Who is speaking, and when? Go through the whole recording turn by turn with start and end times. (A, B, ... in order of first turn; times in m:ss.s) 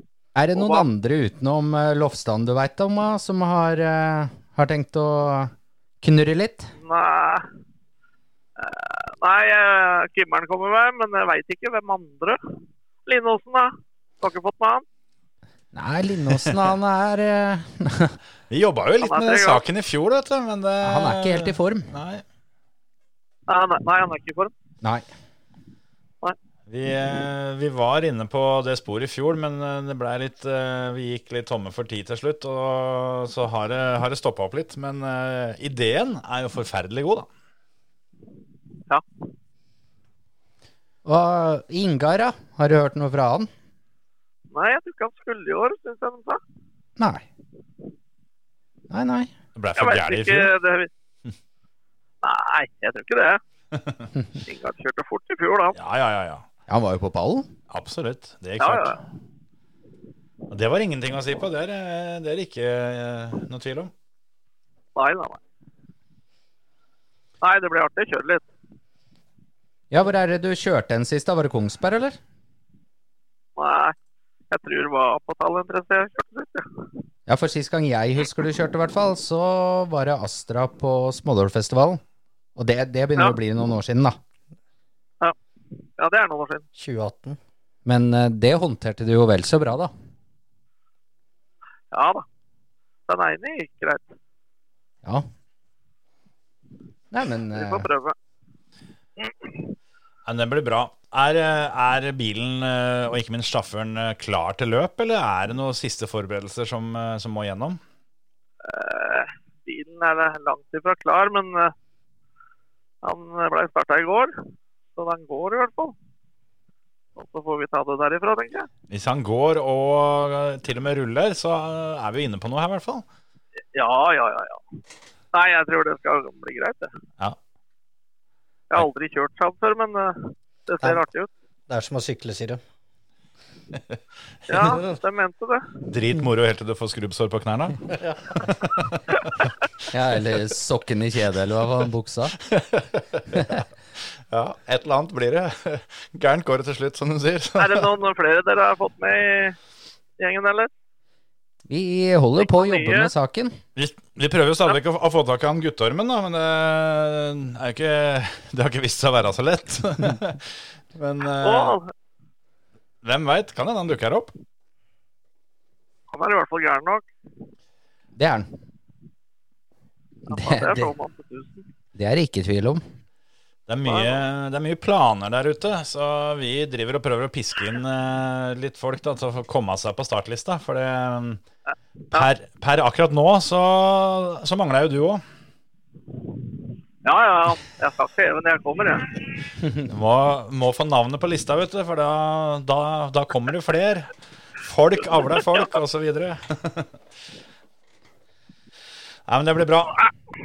0:00.4-0:06.7 A
0:00.5-0:00.9 B
0:06.8-0:07.5 B
0:08.6-0:12.4 B
0:13.1-0:14.8 B
0:15.7-0:18.2 A
0:18.5-0:22.2 C
0:19.0-0:19.6 B
0:20.8-0:21.9 A
0:23.5-0:24.5 B
0:26.7-0:37.3 C
0:41.0-0:43.5 A
0:44.5-0:46.4 B
0:47.0-0:47.2 A
0:48.9-0:49.3 A
0:49.6-0:50.5 C
0:49.8-0:50.9 B
0:52.2-0:53.4 B
0:53.8-0:54.0 C
0:54.4-0:55.8 B
0:55.7-0:56.4 C
0:56.7-0:57.5 A
0:57.7-0:59.0 C
0:58.6-0:59.0 B
1:00.5-1:03.9 C
1:05.0-1:05.4 B
1:07.4-1:08.5 B
1:09.9-1:12.2 A
1:13.6-1:14.0 B
1:14.5-1:16.7 B
1:17.3-1:22.0 A
1:22.6-1:24.2 A
1:26.0-1:26.6 B
1:26.8-1:27.4 D
1:27.8-1:29.9 A
1:31.9-1:32.2 B
1:33.1-1:34.1 B
1:37.1-1:37.9 A
1:37.5-1:38.2 B
1:40.3-1:47.8 C
1:48.6-1:51.7 B
1:53.0-1:54.3 B
1:55.0-1:56.0 B
1:57.2-1:58.7 B
1:58.9-2:03.0 C
2:03.7-2:04.6 B
2:05.3-2:06.9 B
2:08.7-2:11.3 B
2:11.7-2:12.6 D
2:14.5-2:15.6 B
2:15.9-2:17.8 C
2:18.0-2:18.4 D
2:18.5-2:18.9 C
2:19.9-2:22.4 A
2:22.4-2:23.5 C
2:24.3-2:27.9 C
2:27.6-2:29.6 B
2:30.2-2:30.7 B
2:31.7-2:33.6 A
2:32.4-2:33.1 B
2:33.8-2:41.8 C
2:41.4-2:41.9 B
2:43.0-2:44.3 C
2:46.1-2:47.1 B
2:48.2-2:48.5 A
2:50.3-2:51.7 B
2:50.3-2:50.9 A
2:52.0-2:52.8 A
2:53.7-3:01.4 C
2:53.9-2:54.2 B
3:02.1-3:05.2 C
3:07.0-3:09.1 B
3:09.8-3:16.9 C
3:19.3-3:20.1 C